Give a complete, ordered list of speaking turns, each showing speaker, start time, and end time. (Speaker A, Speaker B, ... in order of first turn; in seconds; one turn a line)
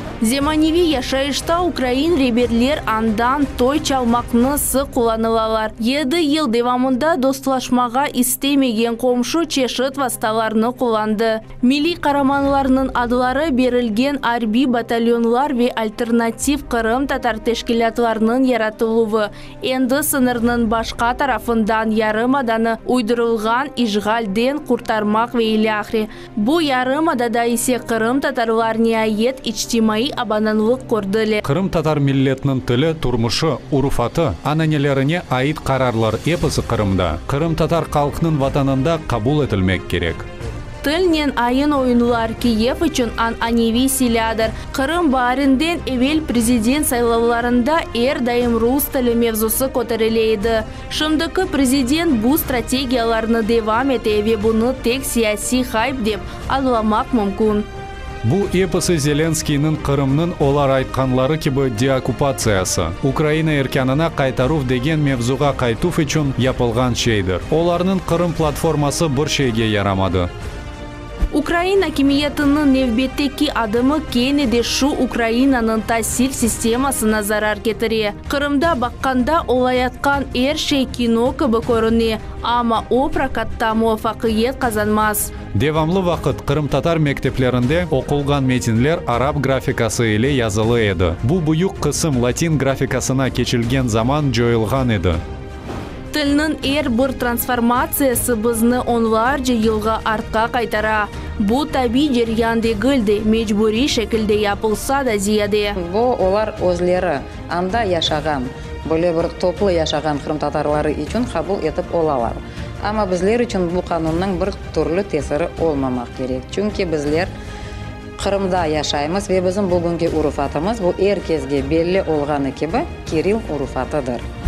Speaker A: 0.2-31.4
Speaker B: 31.4-40.3
Speaker A: 40.8-57.7
Speaker B: 58.2-70.3
Speaker A: 71.3-85.3
Speaker B: 85.5-95.2
Speaker A: 96.1-105.7
Speaker C: 105.8-117.3
Speaker C: 118.2-124.2